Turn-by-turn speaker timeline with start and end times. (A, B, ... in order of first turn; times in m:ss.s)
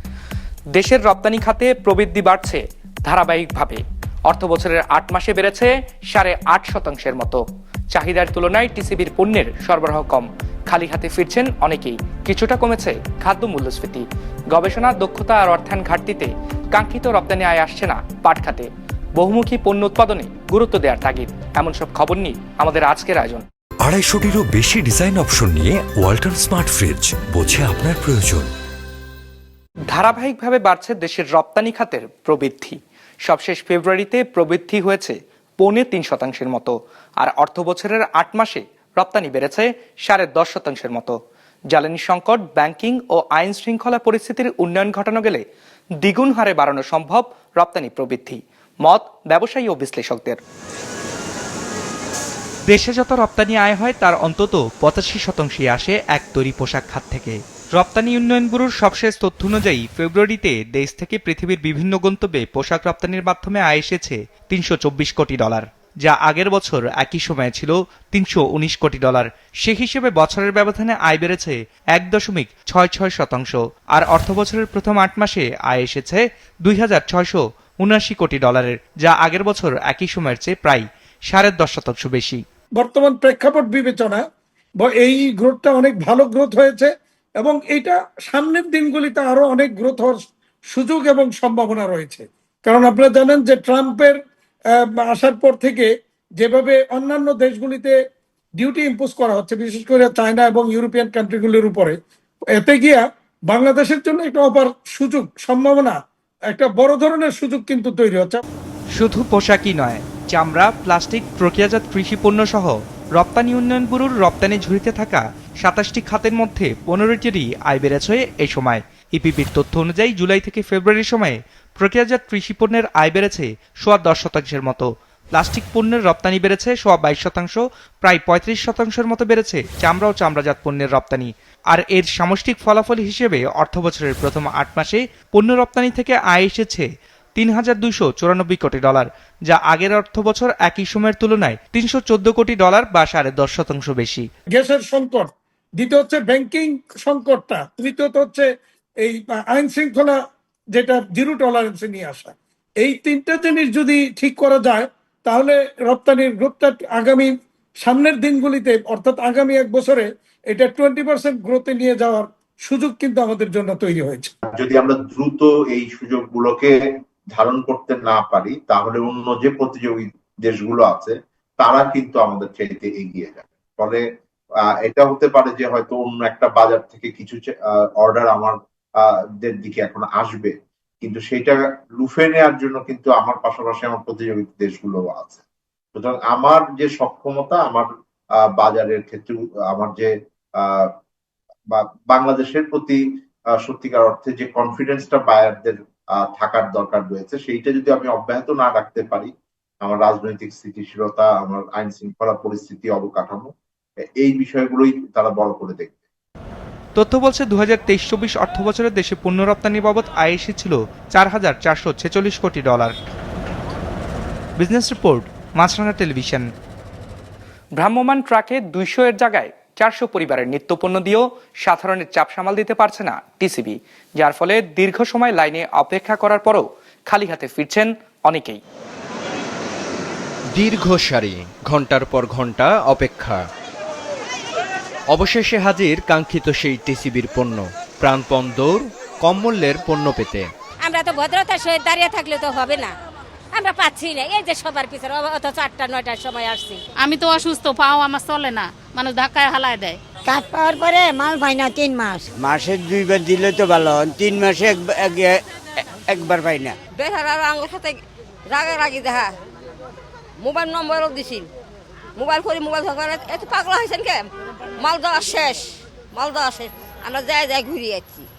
0:00.8-0:07.4 A
0:07.9-0:23.4 A
0:23.8-0:28.5 B
0:29.9-0:41.2 A
0:41.7-0:45.4 A
0:46.0-0:50.4 A
0:52.7-1:22.4 A
1:22.8-1:24.2 C
1:24.8-1:34.2 C
1:35.0-1:38.0 C
1:38.6-1:42.0 C
1:42.5-1:48.4 C
1:49.0-2:24.3 A
2:24.5-2:28.5 C
2:29.0-2:30.2 C
2:30.7-2:44.3 C
2:44.5-2:46.8 D
2:47.3-2:54.0 D
2:54.6-3:05.4 D
3:06.0-3:10.9 D
3:11.7-3:23.5 D
3:24.1-3:26.0 D
3:27.0-3:33.0 A
3:34.6-3:36.5 A
3:37.8-3:48.6 A
3:50.5-3:53.5 E
3:55.1-4:00.5 E
4:00.8-4:03.0 F
4:03.5-4:06.8 F
4:07.0-4:10.0 G
4:11.3-4:15.3 H
4:12.4-4:15.3 I
4:16.1-4:16.7 I
4:16.1-4:16.6 H
4:16.9-4:19.3 F
4:20.4-4:21.5 F
4:22.2-4:24.2 F
4:24.8-4:28.3 F